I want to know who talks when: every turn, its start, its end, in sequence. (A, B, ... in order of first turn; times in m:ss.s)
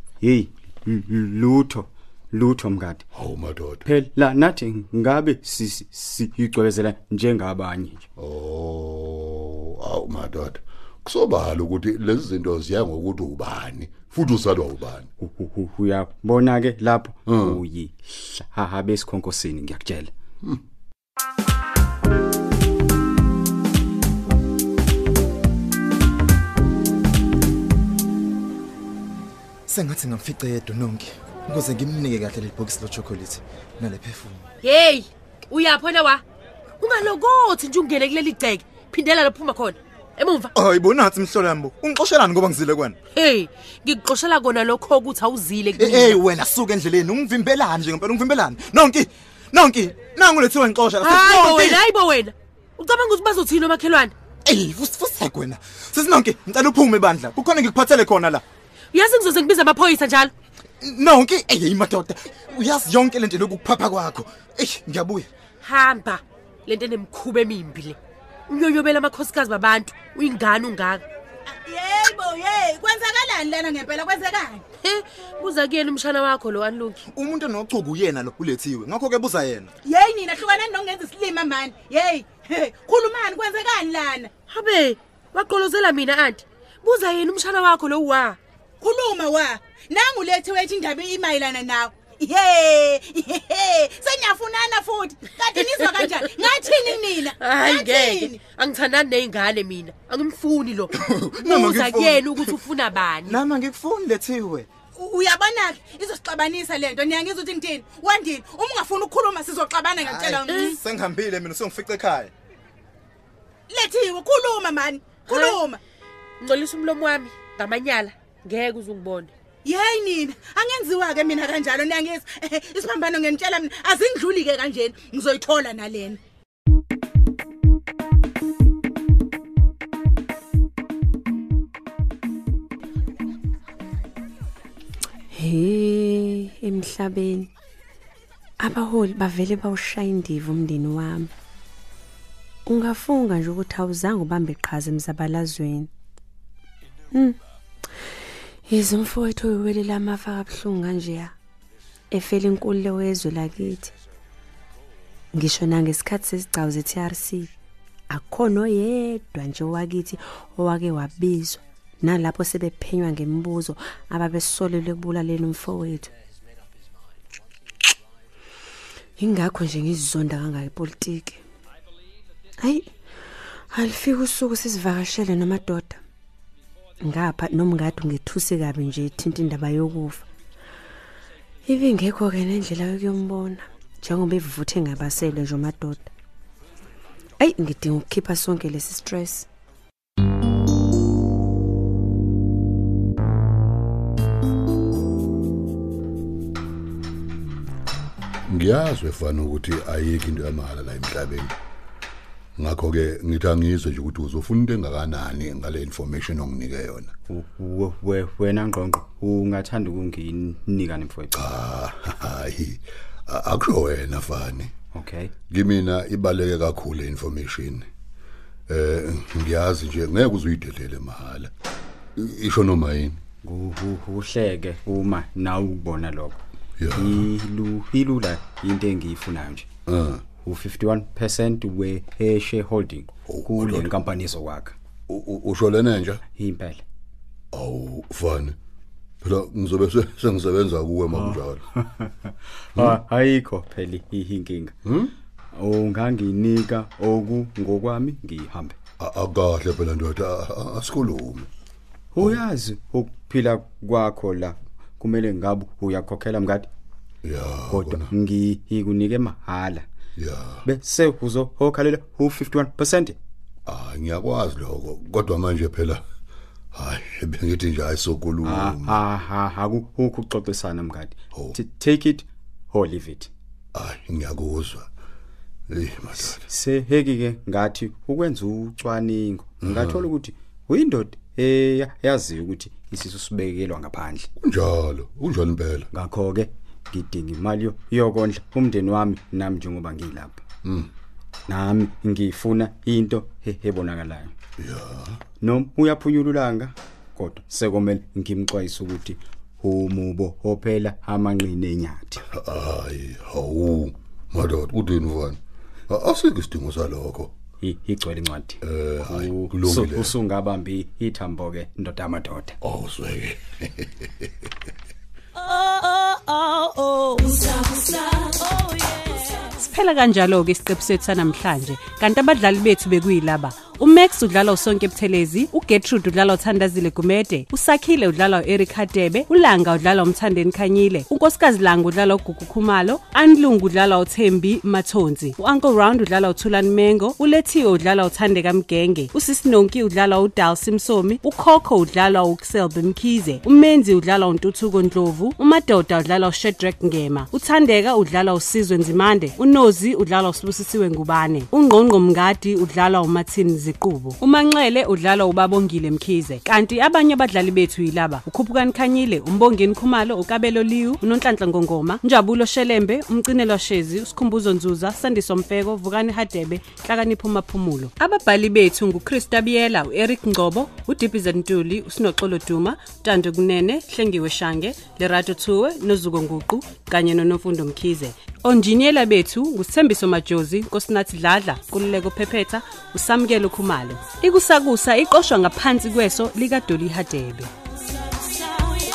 0:00.2-0:03.0 A
0:03.1-0:03.9 B
0:03.8-0:08.1 A
0:08.2-0:15.1 B
0:15.2-0:20.1 A
0:17.3-0:17.6 B
0:29.7-0:34.5 C
0:34.6-0:36.2 D
0:36.8-0:40.5 D
0:40.6-0:43.0 C
0:43.2-0:46.2 D
0:45.8-0:51.8 C
0:51.0-0:54.1 D
0:54.4-0:58.4 C
0:58.9-1:00.3 D
1:00.8-1:05.3 C
1:05.6-1:08.0 D
1:08.5-1:11.0 D
1:11.5-1:14.6 E
1:14.8-1:17.0 D
1:17.1-1:19.7 C
1:19.8-1:24.3 E
1:24.5-1:28.4 D
1:28.8-1:38.4 E
1:35.5-1:43.4 D
1:40.9-1:42.6 C
1:43.2-1:44.7 C
1:45.0-1:50.8 E
1:50.0-1:52.3 C
1:50.5-1:50.8 D
1:53.7-1:55.8 E
1:55.3-1:55.7 D
1:56.4-1:59.3 D
1:59.6-2:06.2 E
2:15.3-2:17.5 F
2:18.6-2:21.3 F
2:22.7-2:25.9 F
2:28.7-2:31.3 F
2:32.1-2:33.9 F
2:35.4-2:37.5 F
2:38.1-2:46.1 F
2:49.2-2:51.4 F
2:52.6-2:52.9 F
2:53.7-2:56.0 F
2:57.0-3:00.3 F
3:01.7-3:06.1 F
3:07.4-3:09.5 F
3:18.5-3:21.6 B
3:22.6-3:27.1 B
3:27.3-3:31.4 A
3:31.3-3:34.7 B
3:34.9-3:35.3 A
3:35.5-3:37.9 B
3:38.7-3:41.5 B
3:42.2-3:43.2 B
3:43.4-3:46.4 A
3:46.8-3:47.3 B
3:47.0-3:49.7 A
3:49.9-3:50.2 B
3:50.4-3:54.8 A
3:53.3-3:53.9 B
3:55.1-3:56.2 B
3:56.4-3:56.8 A
3:57.5-3:58.6 B
3:59.2-4:01.6 B
4:01.2-4:04.8 A
4:04.8-4:05.1 B
4:05.6-4:08.8 A
4:09.0-4:11.5 B
4:12.1-4:16.7 A
4:17.2-4:18.1 B
4:17.7-4:19.8 A
4:20.2-4:20.6 B
4:20.6-4:23.2 A
4:23.7-4:26.0 B
4:26.7-4:29.0 B
4:28.4-4:33.3 A
4:33.7-4:34.9 B
4:35.7-4:36.4 B
4:36.3-4:44.3 A
4:39.7-4:40.0 B
4:44.4-4:45.9 B
4:45.9-4:50.4 A
4:50.6-4:50.9 B
4:51.5-4:54.3 A
4:54.6-4:55.2 B
4:55.4-5:02.2 A
5:02.3-5:07.3 B
5:07.6-5:12.6 A
5:08.6-5:10.1 B
5:12.6-5:14.3 B
5:15.5-6:27.5 G